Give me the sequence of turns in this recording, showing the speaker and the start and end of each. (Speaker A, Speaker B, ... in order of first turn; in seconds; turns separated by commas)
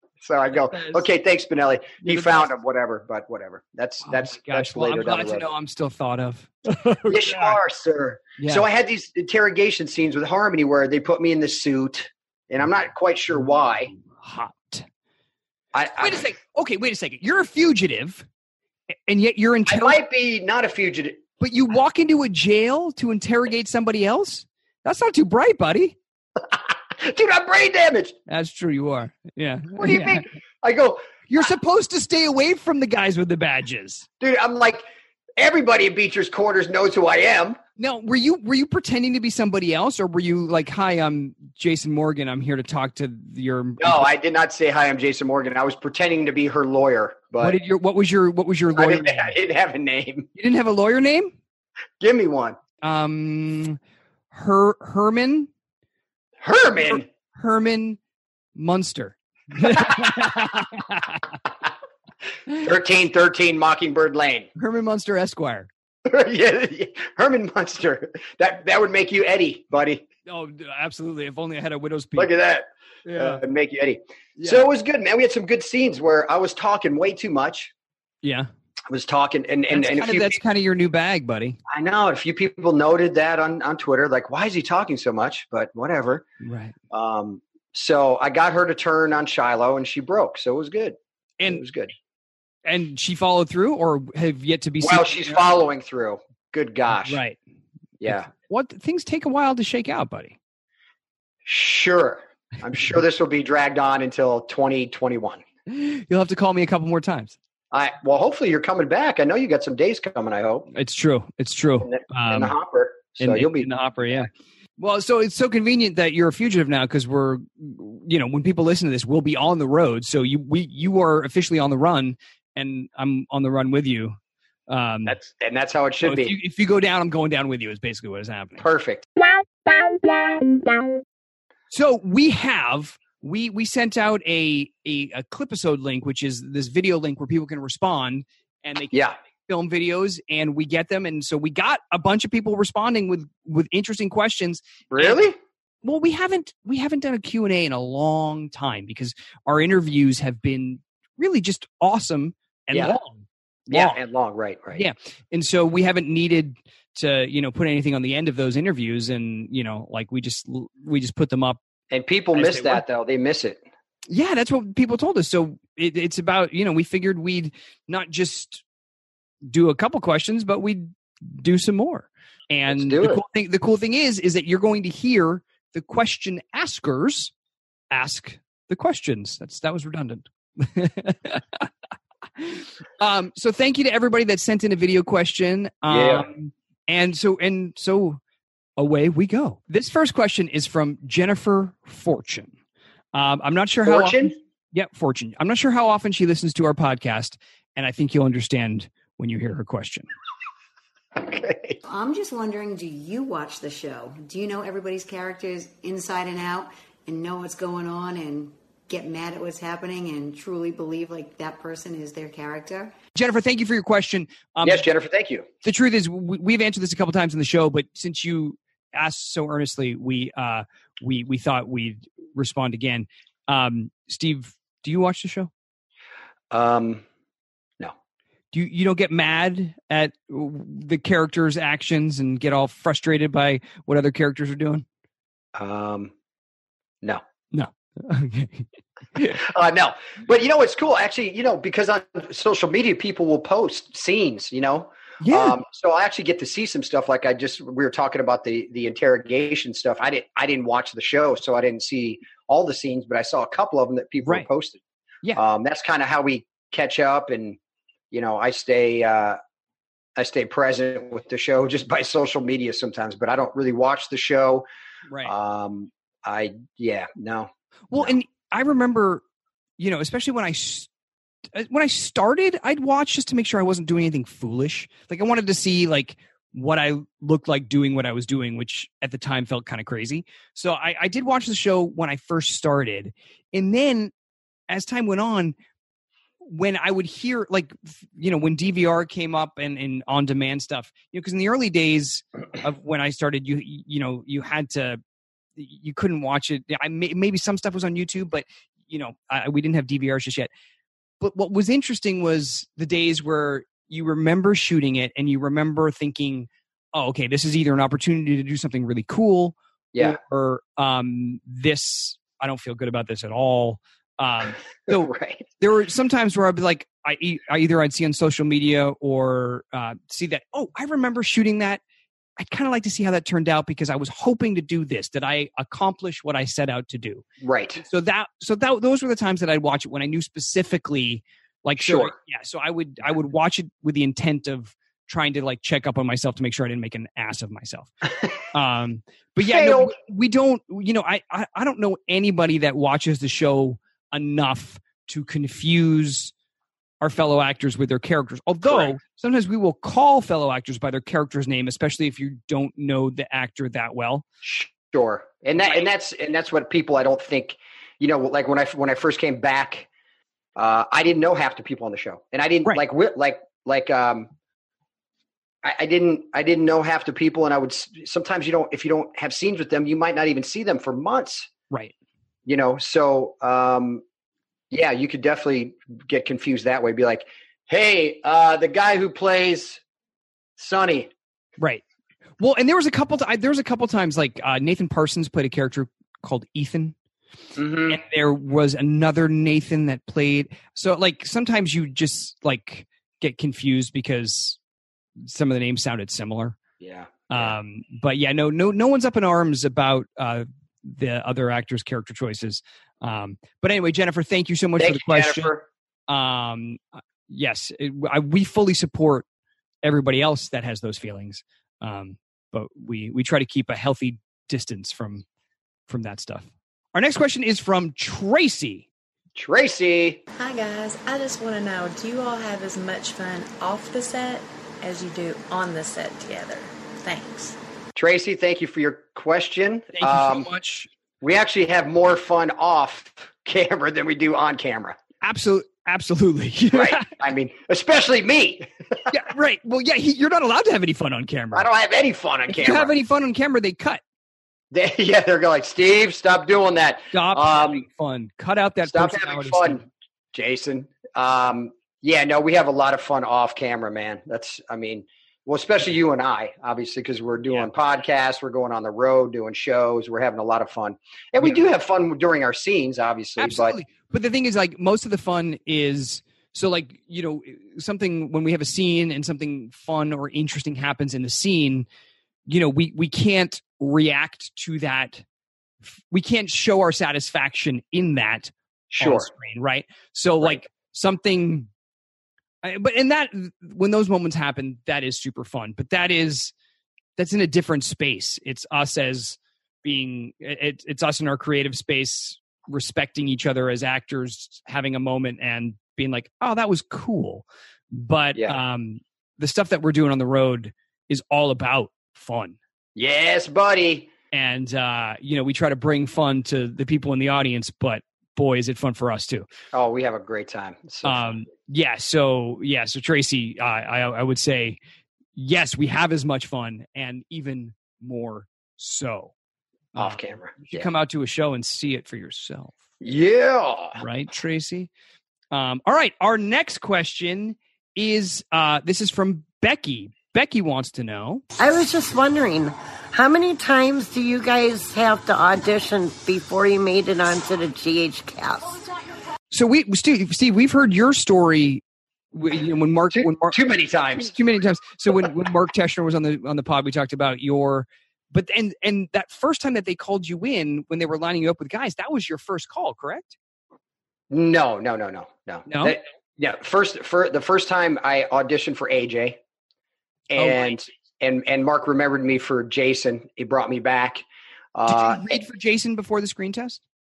Speaker A: 0.2-5.5, Speaker B: 0.5-1.1, Speaker B: 2.0-2.5, Speaker B: 4.0-7.6, Speaker A: 7.1-13.9, Speaker B: 8.4-8.7, Speaker B: 13.9-14.9, Speaker A: 15.7-16.2, Speaker B: 16.0-18.2, Speaker B: 19.1-20.0, Speaker A: 19.6-21.2, Speaker B: 21.4-26.0, Speaker A: 26.5-28.1, Speaker B: 28.3-30.2, Speaker A: 29.8-31.3, Speaker B: 31.3-34.1, Speaker A: 34.2-34.8, Speaker A: 35.4-37.6, Speaker B: 37.8-44.1, Speaker A: 43.8-47.6, Speaker B: 47.4-49.3, Speaker A: 48.7-50.3, Speaker B: 50.3-51.3, Speaker A: 52.0-52.6, Speaker B: 52.8-53.8, Speaker B: 54.3-55.5, Speaker A: 56.4-57.0, Speaker B: 56.8-58.0, Speaker B: 58.5-61.3, Speaker A: 59.7-60.1, Speaker A: 62.6-64.5, Speaker B: 64.5-65.7, Speaker A: 66.0-70.0, Speaker B: 70.2-72.3, Speaker A: 72.2-77.7, Speaker B: 73.0-73.4, Speaker B: 74.4-74.7, Speaker B: 78.2-78.5, Speaker A: 78.9-80.4, Speaker B: 79.7-81.6, Speaker A: 81.7-86.2, Speaker B: 86.4-86.7, Speaker A: 86.9-91.9, Speaker B: 92.6-95.4, Speaker A: 94.8-97.2, Speaker B: 97.0-97.4, Speaker A: 98.0-98.3, Speaker B: 98.0-100.4, Speaker A: 101.5-105.4, Speaker B: 105.7-107.3, Speaker A: 107.7-110.7, Speaker B: 110.7-112.5, Speaker A: 111.8-114.3, Speaker B: 113.2-124.2, Speaker B: 124.7-125.2, Speaker A: 125.0-126.3, Speaker B: 126.0-128.6, Speaker A: 128.6-129.1, Speaker B: 131.7-145.2, Speaker A: 138.9-139.2, Speaker A: 144.9-145.4, Speaker B: 145.8-154.0, Speaker A: 152.7-153.0, Speaker A: 153.7-154.8, Speaker B: 154.7-161.6, Speaker A: 161.9-163.6, Speaker B: 162.3-162.8, Speaker B: 164.1-168.6, Speaker B: 169.4-177.3, Speaker A: 172.7-173.2, Speaker B: 177.9-181.7, Speaker B: 182.4-188.2, Speaker A: 185.9-186.3, Speaker B: 188.8-192.5, Speaker B: 193.1-200.1, Speaker A: 193.8-194.3, Speaker A: 201.2-201.8, Speaker C: 201.8-212.9, Speaker B: 213.1-214.8, Speaker A: 214.6-215.5, Speaker B: 215.6-225.5, Speaker A: 226.5-227.0, Speaker B: 228.5-234.8, Speaker A: 235.5-236.1, Speaker B: 237.5-239.4, Speaker A: 239.3-254.8, Speaker B: 245.2-245.6, Speaker A: 255.3-257.6, Speaker A: 258.1-259.4, Speaker A: 260.2-264.6, Speaker A: 265.2-268.2, Speaker B: 267.9-269.2, Speaker B: 269.8-270.9, Speaker B: 271.5-284.1, Speaker B: 284.7-285.5, Speaker B: 286.4-295.0, Speaker B: 295.6-300.5, Speaker B: 301.2-321.8, Speaker A: 309.9-310.2, Speaker A: 314.9-315.5, Speaker B: 322.4-327.2, Speaker A: 327.4-327.8, Speaker B: 327.8-337.9, Speaker A: 331.8-332.1, Speaker B: 338.4-346.3, Speaker A: 339.4-339.9, Speaker B: 347.0-354.2, Speaker A: 348.6-348.9, Speaker A: 354.4-359.9, Speaker A: 360.6-364.3, Speaker A: 365.6-371.5, Speaker A: 372.4-374.0, Speaker A: 374.7-379.8, Speaker A: 380.6-381.1, Speaker B: 382.4-386.9, Speaker A: 387.6-388.0, Speaker B: 387.9-394.6, Speaker B: 395.2-396.6, Speaker A: 396.8-397.5, Speaker B: 397.3-405.5, Speaker A: 404.8-405.6, Speaker B: 406.1-409.2, Speaker B: 409.8-415.2, Speaker B: 415.9-418.9, Speaker A: 419.4-420.2, Speaker D: 420.3-427.6, Speaker A: 427.9-430.5, Speaker B: 429.9-430.9, Speaker A: 431.2-435.0, Speaker B: 435.2-437.1, Speaker A: 436.7-439.1, Speaker B: 439.1-441.7, Speaker A: 441.5-442.9, Speaker B: 442.5-444.0, Speaker A: 444.7-447.8, Speaker B: 447.1-449.8, Speaker A: 448.9-463.8, Speaker B: 461.4-461.6, Speaker B: 463.4-471.9, Speaker B: 472.5-475.2, Speaker B: 475.8-481.7, Speaker A: 478.9-479.3, Speaker B: 482.6-486.5, Speaker B: 487.2-502.6, Speaker A: 502.9-504.1, Speaker B: 504.3-509.5, Speaker A: 509.7-511.4, Speaker B: 511.0-514.8, Speaker B: 515.4-519.3, Speaker B: 519.9-522.7, Speaker A: 520.0-520.9, Speaker A: 523.0-524.0, Speaker B: 524.0-524.9, Speaker B: 525.5-531.4, Speaker E: 531.6-538.7, Speaker B: 539.5-543.6, Speaker A: 543.1-544.3, Speaker B: 544.1-553.4, Speaker A: 554.3-559.4, Speaker B: 555.7-556.0, Speaker A: 560.3-564.2, Speaker B: 560.4-560.7, Speaker A: 564.7-565.4, Speaker B: 564.9-566.8